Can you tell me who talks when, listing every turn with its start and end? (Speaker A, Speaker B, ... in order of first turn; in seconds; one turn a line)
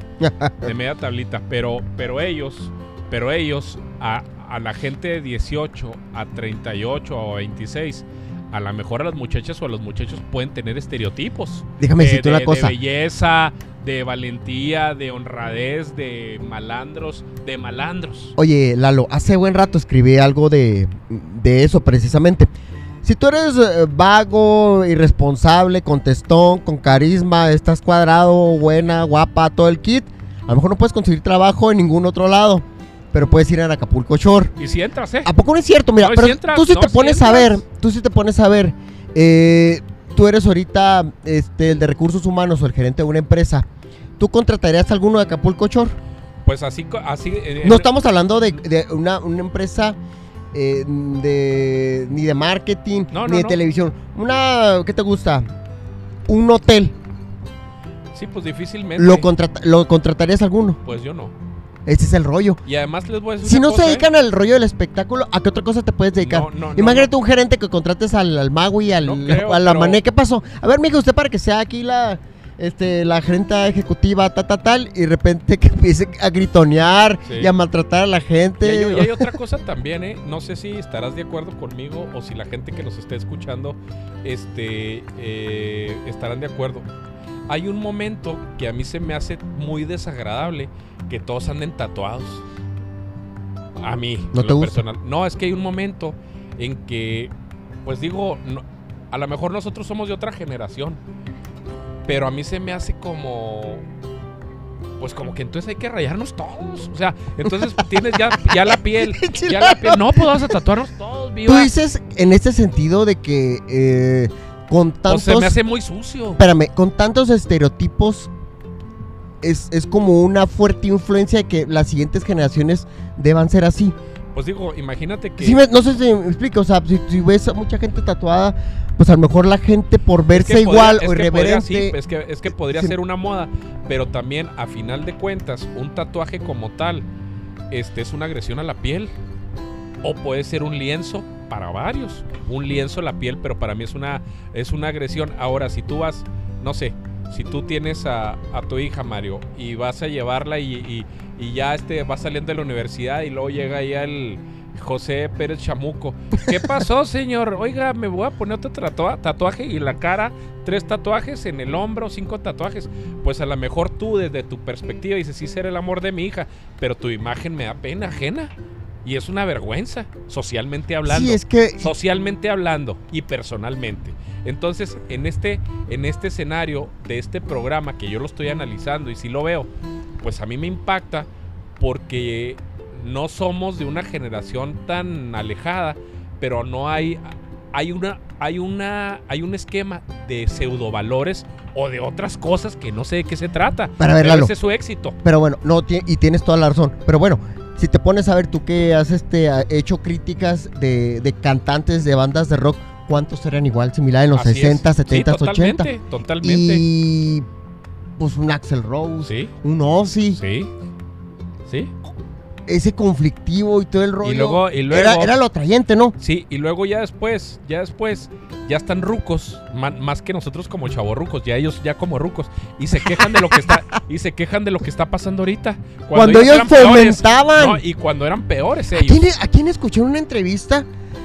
Speaker A: 0.2-0.7
Speaker B: 0.6-18.4
Speaker A: 11.8-12.8
Speaker A: 18.4-34.5
Speaker B: 34.6-35.3
Speaker A: 35.2-43.6
Speaker B: 36.0-37.6
Speaker A: 44.2-46.0
Speaker B: 46.5-47.9
Speaker A: 47.6-50.0
Speaker A: 50.5-55.5
Speaker B: 53.1-53.6
Speaker A: 56.3-57.0
Speaker B: 58.1-59.3
Speaker A: 59.0-60.8
Speaker B: 60.8-61.3
Speaker A: 61.9-62.6
Speaker B: 62.6-64.1
Speaker A: 63.4-79.3
Speaker B: 66.2-67.1
Speaker B: 69.0-70.0
Speaker B: 77.3-77.5
Speaker B: 78.6-86.9
Speaker B: 87.5-92.4
Speaker B: 93.8-97.3
Speaker A: 94.3-94.8
Speaker B: 97.8-101.0
Speaker B: 102.1-103.8
Speaker B: 105.0-111.7
Speaker A: 108.3-110.5
Speaker A: 111.5-115.5
Speaker B: 115.1-116.4
Speaker A: 116.4-118.3
Speaker A: 119.4-124.0
Speaker B: 124.3-125.6
Speaker A: 125.4-132.0
Speaker B: 130.3-137.1
Speaker A: 132.5-132.9
Speaker B: 137.7-139.1
Speaker B: 140.0-168.5
Speaker B: 169.0-179.7
Speaker A: 171.1-171.9
Speaker B: 180.2-181.3
Speaker B: 181.8-195.2
Speaker A: 194.0-194.5
Speaker A: 195.2-205.9
Speaker B: 204.3-206.8
Speaker A: 206.4-207.5
Speaker A: 208.2-210.4
Speaker B: 209.2-209.5
Speaker B: 210.3-210.7
Speaker B: 211.7-211.9
Speaker A: 212.7-216.2
Speaker B: 214.2-215.3
Speaker B: 216.2-229.2
Speaker A: 223.1-223.6
Speaker A: 226.2-227.8
Speaker A: 228.9-230.9